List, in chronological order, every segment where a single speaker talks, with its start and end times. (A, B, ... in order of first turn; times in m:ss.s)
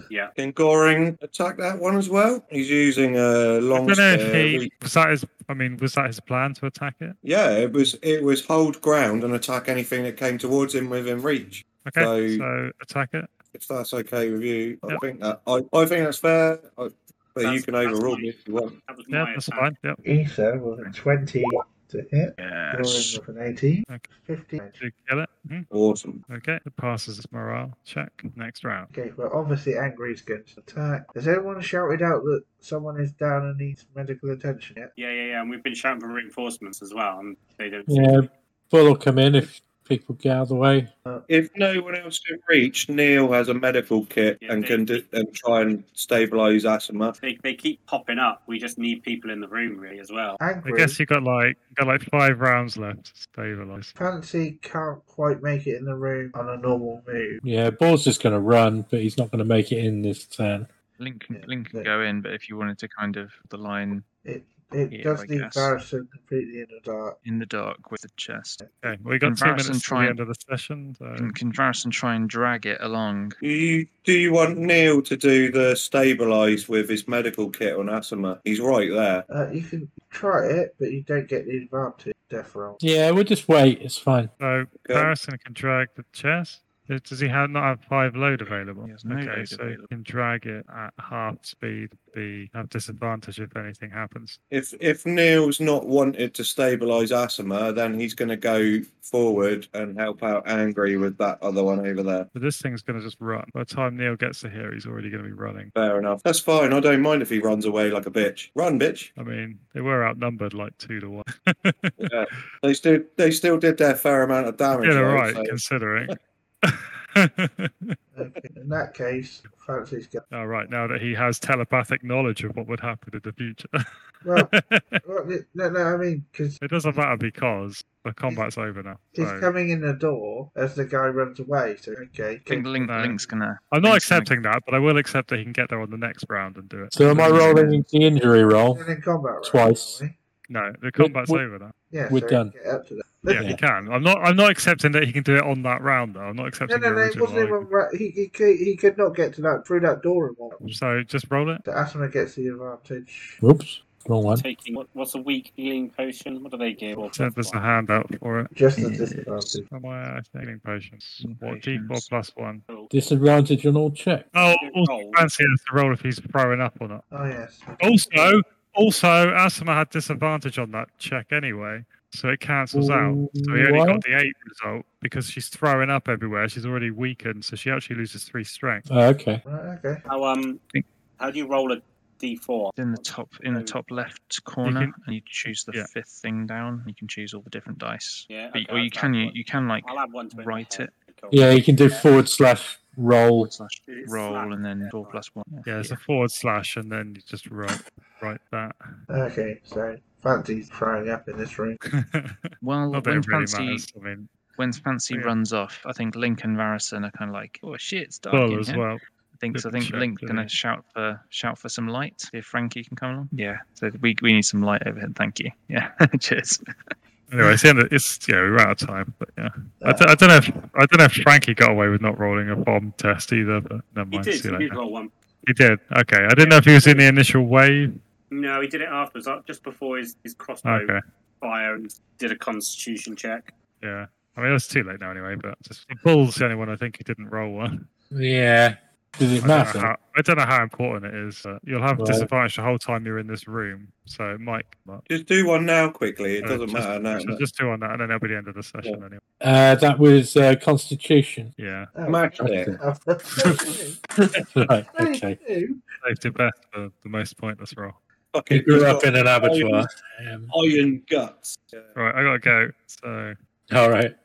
0:00.4-0:04.7 A
0:03.7-0:07.2 B
0:07.2-0:12.4 A
0:11.8-0:13.3 B
0:13.5-0:18.8 A
0:17.4-0:18.4 C
0:18.9-0:19.7 C
0:19.1-0:20.0 B
0:20.0-0:24.8 D
0:22.4-0:23.2 E
0:24.8-0:25.7 B
0:25.7-0:26.2 A
0:26.3-0:28.9 B
0:28.9-0:34.9 D
0:35.0-0:38.3 C
0:37.9-0:40.9 F
0:41.3-0:47.2 A
0:44.4-0:45.0 C
0:47.2-0:50.4 C
0:50.4-0:51.0 D
0:50.6-0:53.9 B
0:54.0-0:57.4 D
0:57.4-1:00.7 F
1:01.0-1:04.1 E
1:01.3-1:01.9 D
1:04.2-1:07.2 D
1:04.9-1:05.7 E
1:07.2-1:08.6 E
1:08.6-1:08.9 D
1:08.8-1:11.3 B
1:09.2-1:10.2 E
1:11.2-1:13.4 E
1:13.4-1:19.3 A
1:19.3-1:22.8 D
1:22.8-1:24.3 F
1:24.4-1:34.4 B
1:24.8-1:25.1 A
1:28.8-1:29.9 E
1:34.5-1:42.3 A
1:42.3-1:45.7 B
1:45.8-1:49.1 A
1:49.2-1:52.4 B
1:52.0-1:56.2 A
1:54.8-1:58.0 B
1:58.1-2:00.2 D
2:00.3-2:03.8 B
2:04.2-2:04.5 D
2:04.4-2:05.0 B
2:05.0-2:06.6 D
2:06.6-2:09.5 B
2:09.2-2:13.3 D
2:12.5-2:14.3 E
2:12.9-2:17.6 B
2:16.9-2:18.9 F
2:17.1-2:17.8 E
2:18.7-2:20.2 D
2:19.4-2:20.0 F
2:20.5-2:21.7 B
2:21.0-2:21.4 F
2:21.9-2:23.6 D
2:22.1-2:22.5 F
2:23.3-2:27.7 B
2:23.3-2:23.6 F
2:26.7-2:30.6 D
2:30.6-2:31.6 B
2:31.7-2:33.4 D
2:33.4-2:34.4 F
2:34.4-2:37.6 C
2:37.1-2:38.5 B
2:38.5-2:39.7 D
2:38.8-2:39.6 E
2:39.7-2:42.6 B
2:41.2-2:42.1 E
2:42.9-2:44.3 F
2:44.3-2:47.1 B
2:44.4-2:45.2 C
2:47.1-2:48.3 D
2:47.8-2:58.9 B
2:52.7-2:54.0 F
2:58.9-2:59.4 F
2:59.5-3:00.0 D
3:00.1-3:00.6 C
3:01.2-3:03.8 C
3:02.7-3:10.9 E
3:04.6-3:05.0 B
3:08.3-3:12.1 C
3:11.3-3:13.5 F
3:13.4-3:16.0 E
3:13.9-3:15.2 C
3:15.7-3:18.8 B
3:19.1-3:21.8 D
3:21.9-3:24.3 B
3:22.6-3:23.9 E
3:24.6-3:28.8 E
3:28.3-3:29.0 B
3:29.4-3:36.6 E
3:29.5-3:30.5 B
3:37.3-3:44.8 B
3:39.8-3:40.7 D
3:44.1-3:45.1 C
3:45.4-3:48.0 B
3:46.4-3:47.1 C
3:48.3-3:53.5 C
3:50.6-3:51.0 B
3:53.8-3:57.9 B
3:58.1-3:59.9 F
3:59.4-4:05.0 B
4:02.0-4:02.3 F
4:05.1-4:07.4 A
4:06.4-4:09.2 B
4:09.4-4:11.5 F
4:11.6-4:11.9 B
4:12.0-4:14.0 D
4:12.1-4:12.8 A
4:12.4-4:12.8 F
4:14.5-4:15.4 F
4:14.9-4:15.8 D
4:16.0-4:18.0 B
4:18.3-4:19.9 A
4:18.5-4:20.5 F
4:20.5-4:21.9 A
4:22.0-4:23.4 B
4:23.7-4:24.2 F